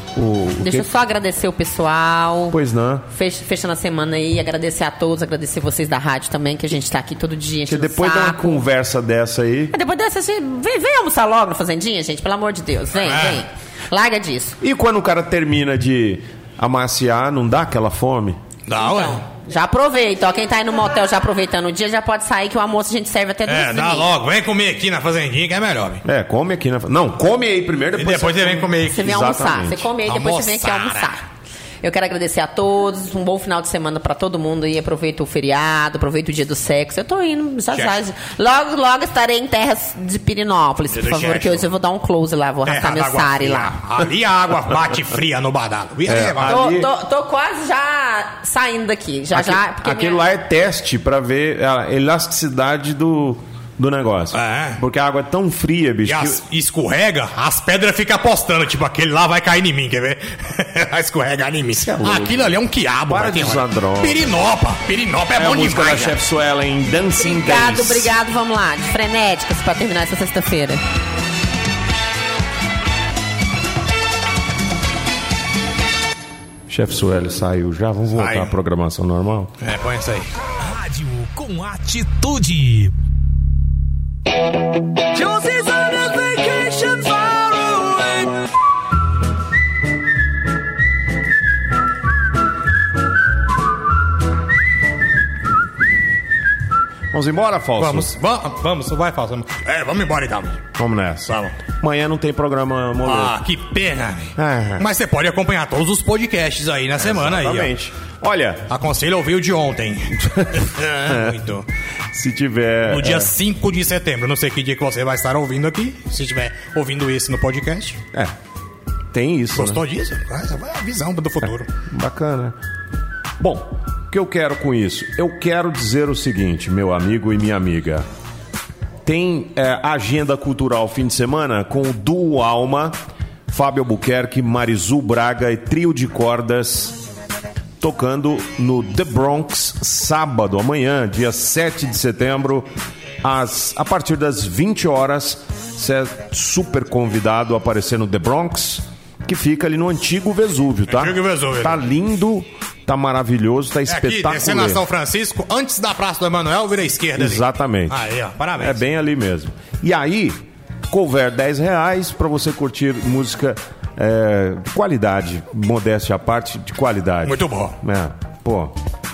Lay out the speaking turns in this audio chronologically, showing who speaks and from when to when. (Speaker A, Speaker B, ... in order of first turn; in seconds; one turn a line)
Speaker A: 0.2-0.9
Speaker B: 0.6-2.6
Speaker A: 2.5-3.0
Speaker B: 3.1-8.6
Speaker A: 7.7-9.7
Speaker B: 9.7-14.6
Speaker C: 13.0-13.4
Speaker A: 14.6-18.4
Speaker C: 18.7-19.2
Speaker B: 18.7-24.1
Speaker C: 23.5-26.0
Speaker A: 26.1-29.9
Speaker C: 27.9-29.1
Speaker B: 28.9-31.3
Speaker C: 30.0-31.1
Speaker B: 31.8-43.8
Speaker C: 37.7-38.0
Speaker C: 40.9-41.7
Speaker C: 42.6-46.6
Speaker A: 46.1-46.9
Speaker B: 46.4-50.2
Speaker A: 49.3-56.4
Speaker C: 54.3-54.8
Speaker C: 56.0-66.2
Speaker A: 61.7-62.6
Speaker A: 63.1-64.3
Speaker A: 65.4-68.1
Speaker B: 67.2-70.8
Speaker A: 76.7-79.5
Speaker C: 78.1-78.6
Speaker C: 79.6-80.3
Speaker D: 80.6-82.9
Speaker D: 85.1-88.3
Speaker A: 97.1-98.1
Speaker C: 97.8-100.7
Speaker A: 100.8-103.3
Speaker C: 101.2-101.6
Speaker C: 103.0-107.8
Speaker A: 104.4-104.9
Speaker A: 107.0-108.7
Speaker C: 108.7-111.7
Speaker A: 110.2-111.4
Speaker A: 112.1-113.3
Speaker C: 112.8-118.0
Speaker A: 119.1-119.8
Speaker C: 119.5-121.7
Speaker A: 121.9-122.5
Speaker A: 123.4-128.1
Speaker A: 129.1-132.9
Speaker A: 133.5-136.9
Speaker A: 137.8-142.7
Speaker A: 143.2-154.8
Speaker C: 150.9-151.8
Speaker C: 153.9-158.8
Speaker A: 157.2-158.0
Speaker A: 158.6-160.4
Speaker A: 160.9-168.7
Speaker C: 167.2-167.8